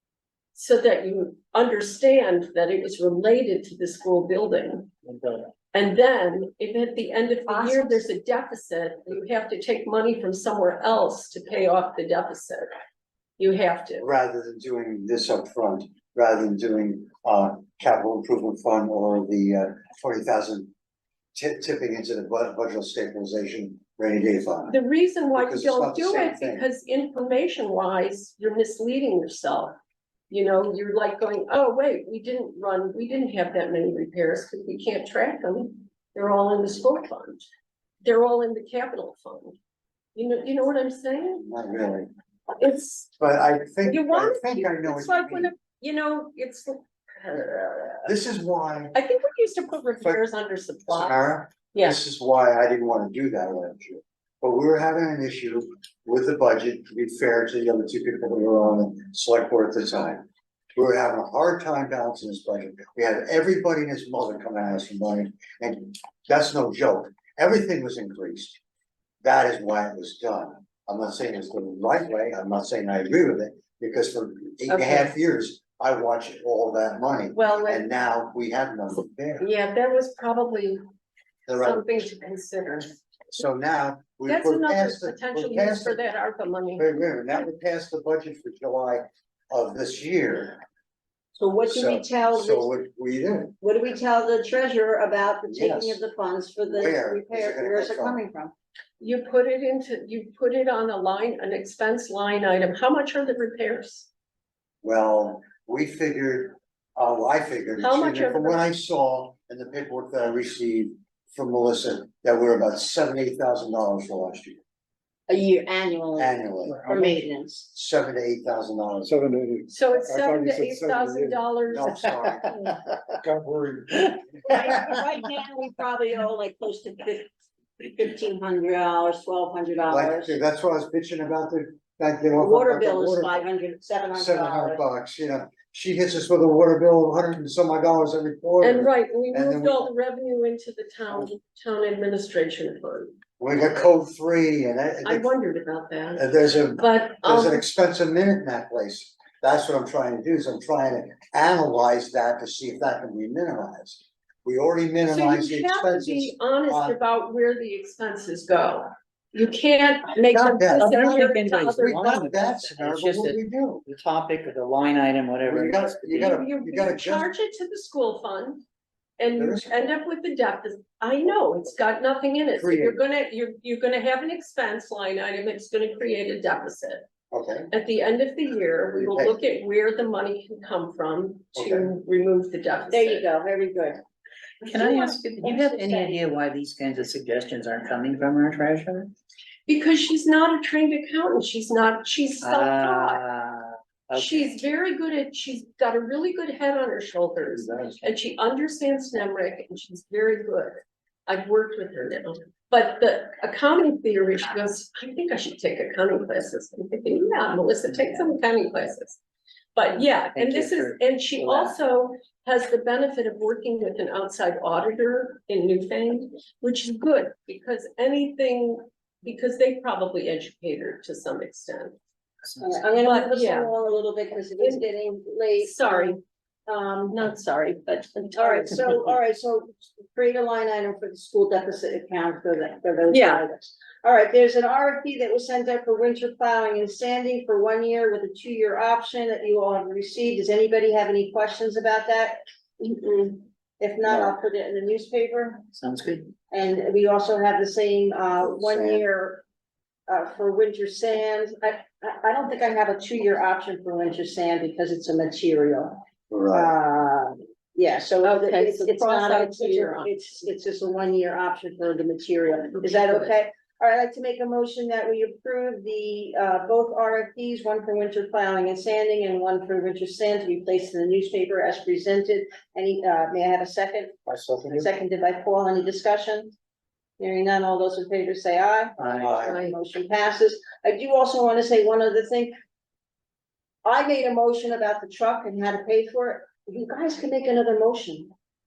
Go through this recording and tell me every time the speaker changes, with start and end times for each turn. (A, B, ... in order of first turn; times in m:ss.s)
0:00.5-0:04.9 A
0:05.1-0:05.4 B
0:05.7-0:12.7 A
0:07.5-0:08.0 C
0:13.4-0:14.0 A
0:14.0-0:20.7 D
0:21.4-0:24.8 D
0:24.7-0:29.8 A
0:25.4-0:26.7 D
0:30.3-0:37.5 A
0:38.0-0:39.6 A
0:40.2-0:41.5 A
0:41.4-0:42.1 D
0:42.6-0:43.1 A
0:43.2-0:45.5 D
0:43.9-0:48.1 A
0:48.0-0:49.0 D
0:48.9-0:52.0 A
0:50.9-1:08.6 D
1:09.2-1:19.5 D
1:14.7-1:15.1 A
1:17.3-1:17.9 A
1:19.4-1:20.8 A
1:21.5-1:21.8 D
1:21.6-1:23.0 A
1:23.3-1:26.1 D
1:24.3-1:26.8 A
1:26.8-1:30.6 D
1:31.4-1:32.7 C
1:31.7-1:33.6 D
1:33.6-1:38.5 C
1:35.5-1:36.0 D
1:36.7-1:38.2 D
1:39.0-1:44.1 A
1:44.8-1:54.6 D
1:47.8-1:48.6 A
1:55.3-1:57.7 C
1:56.2-1:57.0 D
1:57.7-1:59.2 D
1:59.1-2:01.4 E
1:59.7-2:02.4 A
2:01.7-2:02.8 D
2:03.2-2:04.0 E
2:04.5-2:07.3 C
2:07.8-2:10.4 C
2:09.9-2:13.5 D
2:12.4-2:14.8 C
2:14.1-2:19.9 D
2:18.6-2:23.2 A
2:23.4-2:25.3 D
2:25.0-2:27.6 A
2:26.2-2:37.0 D
2:35.0-2:42.0 A
2:40.2-2:43.8 D
2:40.8-2:46.4 B
2:45.5-2:47.3 D
2:46.2-2:48.6 A
2:49.2-2:57.1 A
2:49.4-2:49.7 D
2:52.6-2:53.0 D
2:57.3-2:57.7 D
2:57.7-3:03.2 A
2:59.0-2:59.4 D
3:01.5-3:01.9 D
3:02.9-3:04.0 C
3:04.6-3:09.1 B
3:04.7-3:06.2 C
3:09.7-3:13.2 A
3:12.4-3:14.5 B
3:14.1-3:29.2 A
3:17.5-3:18.1 D
3:29.8-3:42.0 A
3:30.3-3:31.8 B
3:42.6-3:47.2 C
3:42.9-3:43.7 A
3:44.6-3:44.9 A
3:45.6-3:46.2 A
3:47.1-3:49.0 A
3:48.4-4:05.7 C
3:53.1-3:53.4 A
4:04.0-4:04.3 D
4:05.7-4:06.3 B
4:06.5-4:09.4 C
4:08.4-4:09.0 D
4:10.1-4:34.2 C
4:16.3-4:16.7 D
4:18.2-4:20.5 A
4:22.7-4:23.4 A
4:34.3-4:34.9 D
4:34.7-4:36.5 C
4:37.2-4:42.5 C
4:39.0-4:39.6 D
4:39.4-4:39.8 A
4:43.8-4:48.3 C